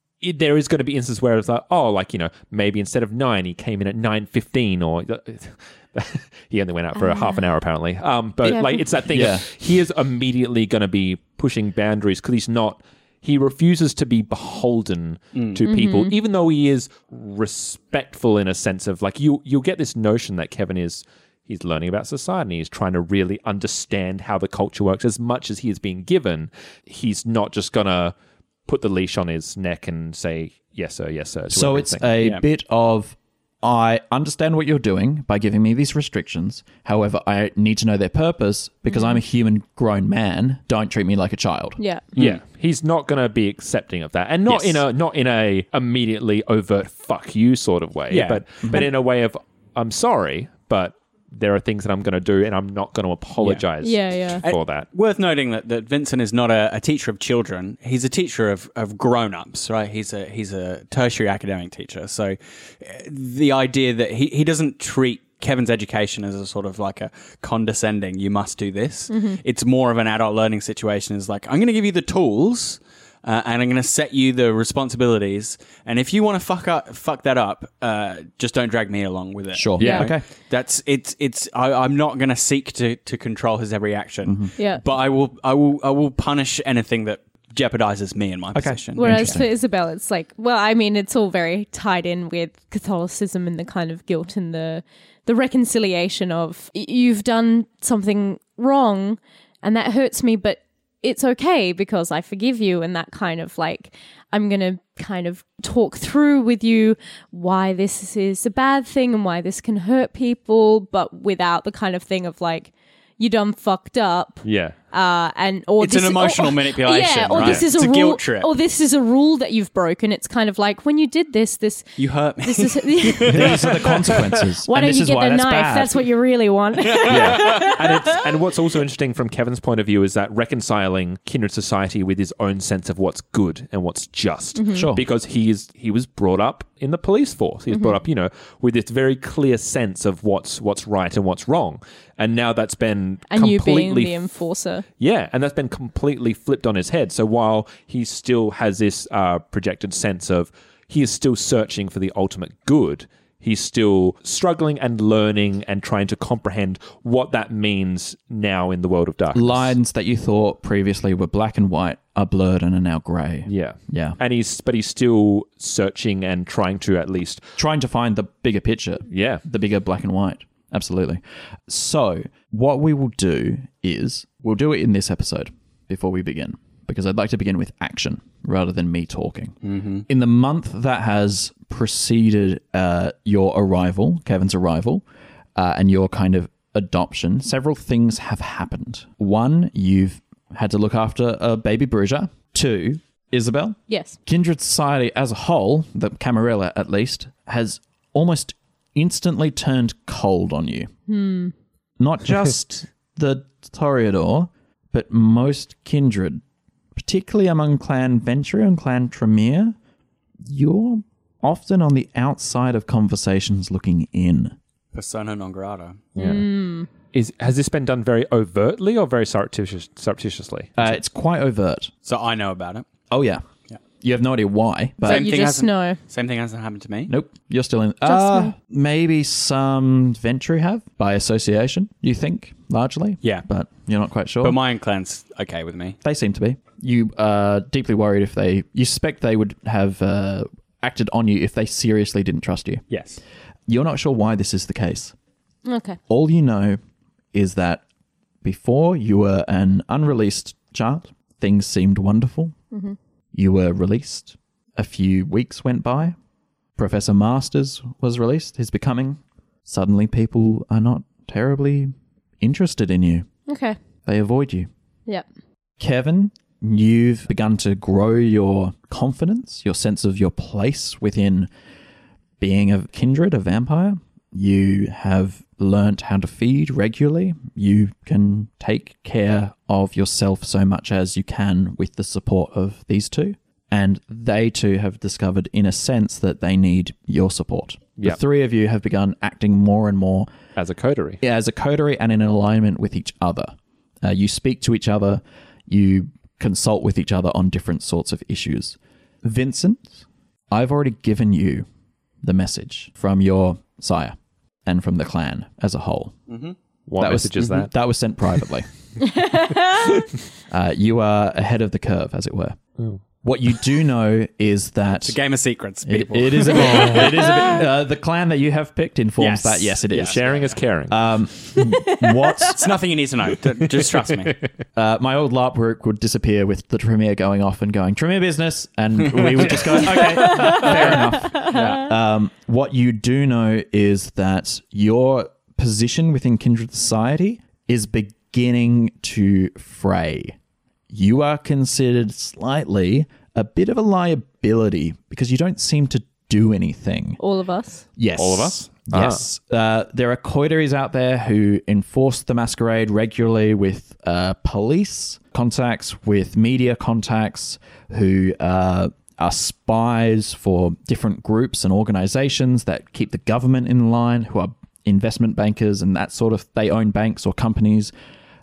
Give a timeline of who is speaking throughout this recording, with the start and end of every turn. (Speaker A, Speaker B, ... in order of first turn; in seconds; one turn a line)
Speaker A: 0.2-28.1
Speaker B: 6.9-7.4
Speaker B: 8.4-8.8
Speaker C: 9.1-9.4
Speaker B: 15.7-16.1
Speaker A: 28.6-32.1
Speaker C: 31.5-41.8
Speaker B: 38.9-39.2
Speaker B: 41.8-42.0
Speaker D: 42.1-42.4
Speaker A: 42.2-54.9
Speaker D: 44.5-44.8
Speaker D: 48.1-48.9
Speaker D: 53.4-53.6
Speaker B: 53.8-54.4
Speaker D: 54.4-89.4
Speaker B: 69.1-69.4
Speaker C: 79.5-80.2
Speaker B: 79.8-80.1
Speaker C: 84.2-84.5
Speaker C: 88.5-89.5
Speaker B: 89.0-123.5
Speaker A: 114.4-114.8
Speaker D: 115.8-118.5
Speaker A: 117.4-117.7
Speaker D: 122.0-124.1
Speaker C: 123.3-126.0
Speaker B: 124.7-127.8
Speaker D: 127.0-127.7
Speaker A: 127.0-144.2
Speaker B: 134.6-134.9
Speaker C: 134.7-135.0
Speaker B: 137.7-138.0
Speaker B: 143.3-144.8
Speaker A: 145.0-159.7
Speaker C: 159.3-164.2
Speaker A: 163.5-167.5
Speaker C: 167.6-179.5
Speaker A: 169.1-169.4
Speaker D: 179.6-180.0
Speaker C: 180.1-185.0
Speaker C: 185.6-200.9
Speaker B: 193.9-194.2
Speaker B: 201.1-201.5
Speaker C: 202.0-206.4
Speaker C: 206.9-209.8
Speaker C: 210.4-214.6
Speaker D: 214.9-216.0
Speaker A: 216.2-216.5
Speaker B: 216.2-216.9
Speaker A: 217.1-220.7
Speaker C: 220.8-221.9
Speaker D: 222.0-222.8
Speaker C: 223.1-223.4
Speaker C: 224.0-225.3
Speaker D: 225.0-227.1
Speaker B: 225.1-226.0
Speaker C: 227.1-234.6
Speaker B: 228.1-228.5
Speaker D: 234.4-236.0
Speaker C: 236.0-242.8
Speaker D: 242.9-243.2
Speaker C: 243.7-245.1
Speaker B: 245.7-246.0
Speaker C: 246.1-246.8
Speaker C: 247.3-247.8
Speaker C: 248.4-252.5
Speaker C: 253.3-256.1
Speaker C: 256.8-263.3
Speaker B: 263.5-263.8
Speaker C: 264.1-264.7
Speaker C: 265.8-271.5
Speaker C: 272.4-290.3
Speaker A: 290.6-291.2
Speaker C: 291.2-301.6
Speaker C: 302.2-306.2
Speaker D: 306.3-306.6
Speaker A: 306.9-307.7
Speaker C: 307.0-308.7
Speaker B: 309.1-309.9
Speaker C: 310.5-312.6
Speaker C: 313.2-315.2
Speaker D: 315.0-317.6
Speaker C: 315.8-320.2
Speaker D: 319.2-320.6
Speaker A: 319.9-321.0
Speaker C: 320.9-322.7
Speaker B: 321.6-322.4
Speaker D: 322.6-324.4
Speaker C: 324.8-340.3
Speaker D: 329.2-331.9
Speaker C: 340.9-347.2
Speaker B: 347.2-347.8
Speaker C: 348.0-367.9
Speaker A: 348.1-349.2